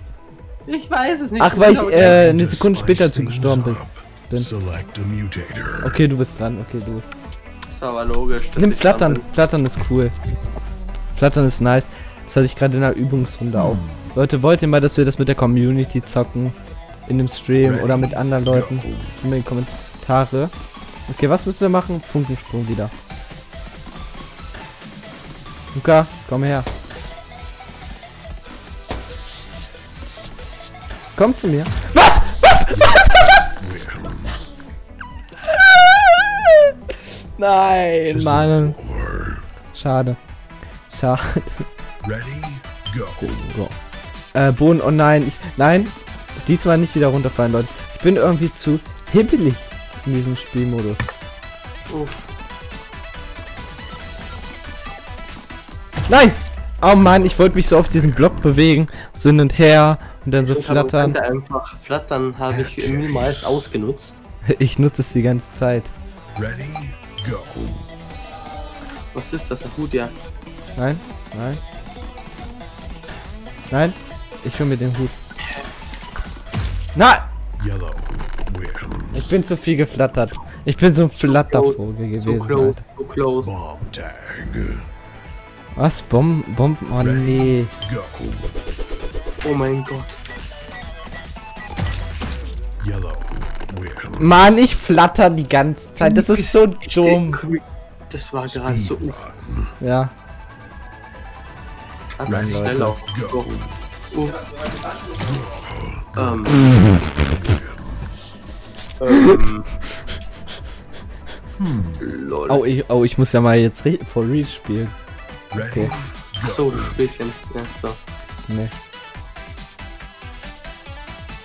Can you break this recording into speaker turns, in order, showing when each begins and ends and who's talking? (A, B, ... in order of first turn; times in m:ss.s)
0:00.7-0:02.3 A
0:01.4-0:04.5 B
0:01.9-0:05.9 C
0:05.8-0:07.1 B
0:07.7-0:09.2 A
0:08.6-0:10.1 B
0:11.1-0:20.5 B
0:13.7-0:14.0 C
0:17.6-0:19.1 C
0:21.1-0:22.9 B
0:25.7-0:26.7 B
0:31.2-0:33.6 B
0:32.7-0:33.0 C
0:33.6-0:34.4 C
0:35.5-0:36.7 B
0:37.4-0:38.8 B
0:38.1-0:39.4 C
0:39.7-0:40.2 B
0:40.9-0:41.7 B
0:42.0-0:43.2 C
0:43.1-0:43.8 B
0:44.3-0:51.1 B
0:51.9-0:52.3 A
0:56.1-1:01.2 B
1:00.4-1:04.2 A
1:04.5-1:05.9 B
1:06.4-1:07.8 C
1:09.1-1:10.1 A
1:10.8-1:11.6 B
1:13.7-1:15.1 B
1:16.9-1:17.2 B
1:17.6-1:19.2 C
1:19.1-1:22.8 B
1:21.3-1:23.5 A
1:23.4-1:24.8 C
1:25.7-1:27.7 B
1:27.0-1:28.4 C
1:29.4-1:30.2 A
1:32.8-1:34.3 C
1:34.2-1:37.4 B
1:36.0-1:39.2 A
1:38.6-1:39.7 C
1:39.8-1:40.1 B
1:42.2-1:43.5 A
1:42.3-1:42.9 B
1:44.1-1:44.4 A
1:45.3-1:46.6 C
1:46.2-1:46.6 A
1:47.2-1:47.6 C
1:49.0-1:49.7 A
1:52.0-1:52.6 A
1:52.5-1:54.9 B
1:55.5-1:56.0 B
1:55.5-1:56.5 C
1:56.4-1:58.0 A